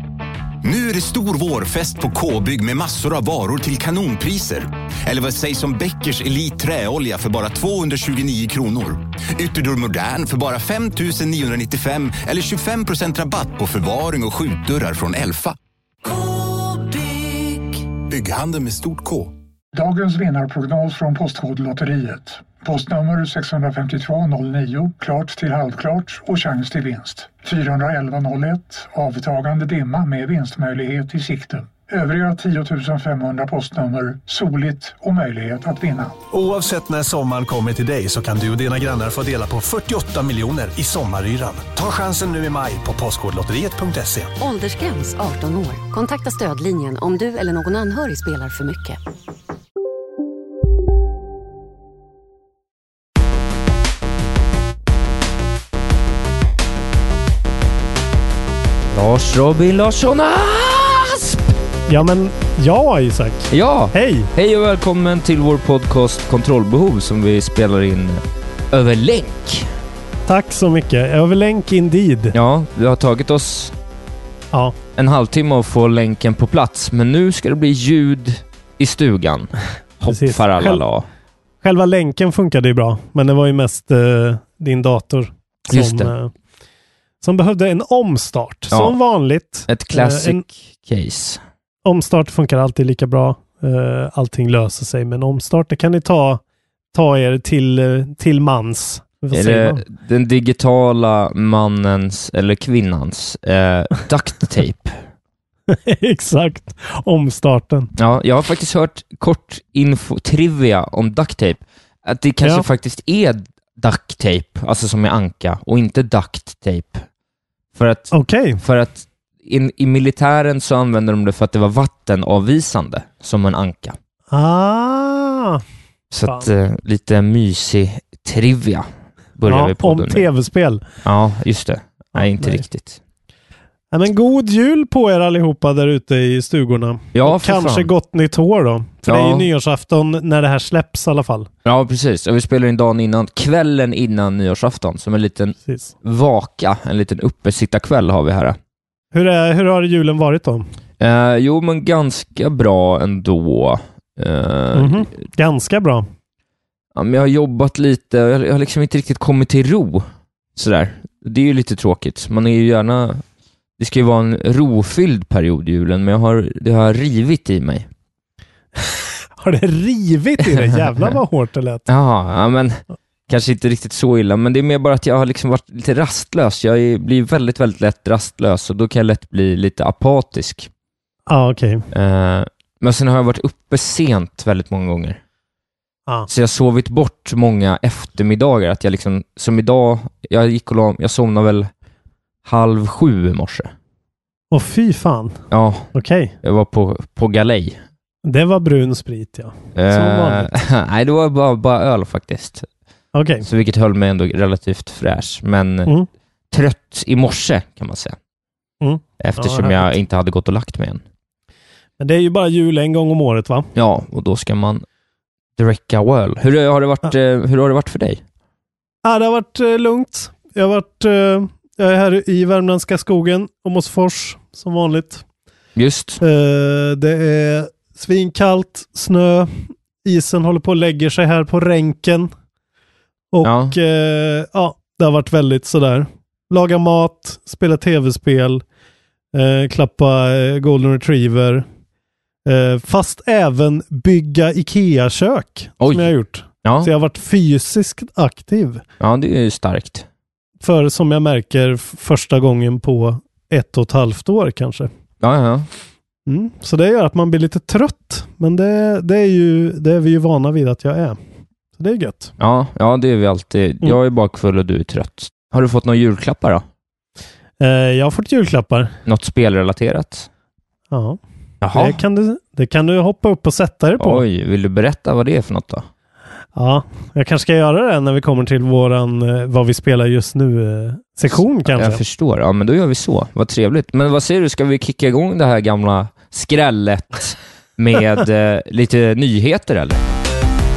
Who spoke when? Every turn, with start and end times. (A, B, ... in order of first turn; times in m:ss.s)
0:00.6-0:19.3 A
0:19.7-0:36.2 B
0:36.3-0:44.3 C
0:44.4-0:49.0 D
0:58.9-1:01.5 E
1:01.9-1:04.3 F
1:03.5-1:09.7 E
1:10.3-1:12.4 F
1:12.3-1:13.7 E
1:15.0-1:21.1 E
1:20.1-1:20.8 F
1:21.6-1:26.3 F
1:25.7-1:26.1 E
1:27.2-1:30.4 F
1:28.7-1:29.0 E
1:29.7-1:31.4 E
1:31.8-1:36.4 F
1:36.9-1:39.8 F
1:39.3-1:45.0 E
1:45.7-1:47.9 F
1:48.0-1:57.0 E
1:57.8-2:04.0 E
1:58.1-1:58.6 F
2:04.3-2:05.6 F
2:06.1-2:10.3 E
2:09.5-2:10.8 F
2:11.0-2:13.0 E
2:12.2-2:12.6 F
2:13.9-2:21.5 F
2:17.1-2:17.9 E
2:19.0-2:19.5 E
2:21.6-2:28.6 E
2:29.1-2:30.7 F
2:31.0-2:35.1 E
2:34.7-2:36.0 F
2:37.0-2:43.2 E
2:43.8-2:47.9 E
2:48.8-2:51.9 F
2:51.9-3:00.7 E
3:01.3-3:01.9 F
3:01.9-3:05.2 E
3:06.3-3:11.7 E
3:12.4-3:13.7 E
3:14.5-3:15.4 F
3:15.5-3:15.9 E
3:15.9-3:16.3 F
3:16.4-3:17.8 E
3:18.2-3:20.5 F
3:19.8-3:22.7 E
3:23.1-3:23.5 F
3:23.4-3:25.9 E
3:26.5-3:28.2 E
3:28.8-3:30.0 F
3:29.2-3:31.0 E
3:32.0-3:33.7 F
3:33.8-3:34.8 E
3:35.6-3:38.2 E
3:39.0-3:45.2 F
3:45.8-3:46.2 E
3:46.2-3:52.3 F
3:53.3-3:58.6 F
3:53.4-3:53.8 E
3:59.3-4:01.6 F
4:02.5-4:08.8 F
4:05.8-4:06.1 E
4:06.6-4:06.9 E
4:09.0-4:10.1 E
4:10.6-4:14.9 F
4:15.2-4:15.7 E
4:16.3-4:21.2 F
4:21.8-4:22.3 F
4:22.4-4:26.6 E
4:27.6-4:28.9 F
4:29.1-4:30.3 E
4:30.9-4:31.2 F
4:31.6-4:32.0 E
4:31.7-4:34.2 F
4:34.0-4:35.9 E
4:36.6-4:42.0 F
4:41.3-4:50.0 E